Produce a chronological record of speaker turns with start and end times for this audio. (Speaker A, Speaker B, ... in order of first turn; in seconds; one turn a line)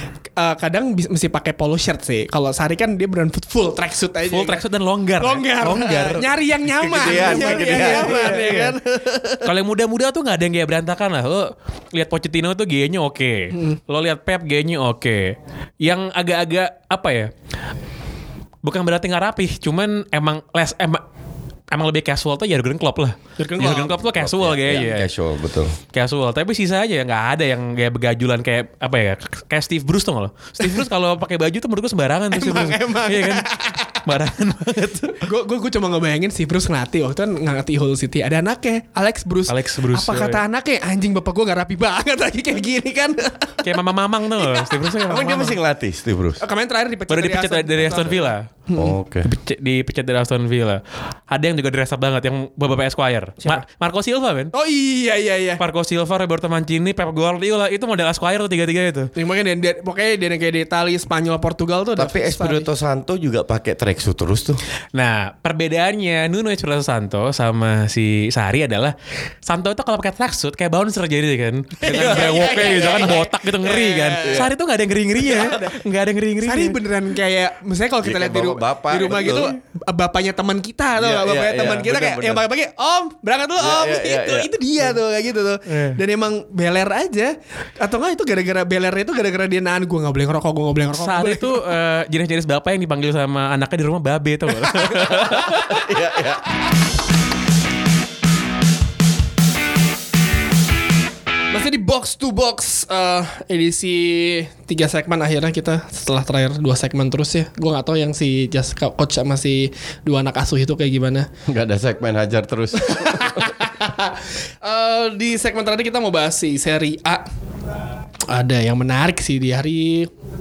Speaker A: 0.4-4.6
Speaker B: 4.2-8.8
Speaker A: 5.2-9.5
Speaker C: 6.8-8.4
Speaker B: 9.4-17.3
Speaker B: 18.6-21.0
Speaker B: 21.7-25.1
Speaker A: 23.4-24.0
Speaker C: 24.1-25.8
Speaker B: 25.9-35.2
Speaker A: 30.6-30.9
Speaker A: 32.3-34.0
Speaker A: 35.2-43.7
Speaker B: 39.5-40.4
Speaker B: 43.6-45.6
Speaker A: 44.4-44.8
Speaker C: 45.1-46.4
Speaker A: 46.4-48.9
Speaker B: 47.1-48.5
Speaker C: 48.8-49.3
Speaker B: 49.2-54.5
Speaker A: 54.5-55.6
Speaker B: 55.6-59.1
Speaker A: 59.2-62.7
Speaker C: 62.0-64.6
Speaker B: 64.9-76.8
Speaker A: 71.8-74.5
Speaker C: 71.8-72.6
Speaker C: 74.2-74.5
Speaker A: 75.2-75.8
Speaker A: 76.4-91.7
Speaker C: 78.0-79.5
Speaker B: 79.1-79.5
Speaker C: 81.0-82.5
Speaker C: 83.6-84.5
Speaker B: 85.7-86.0
Speaker B: 90.9-95.8
Speaker C: 95.2-96.4
Speaker A: 101.5-111.3
Speaker C: 111.5-113.7
Speaker A: 112.8-117.3
Speaker A: 118.3-120.1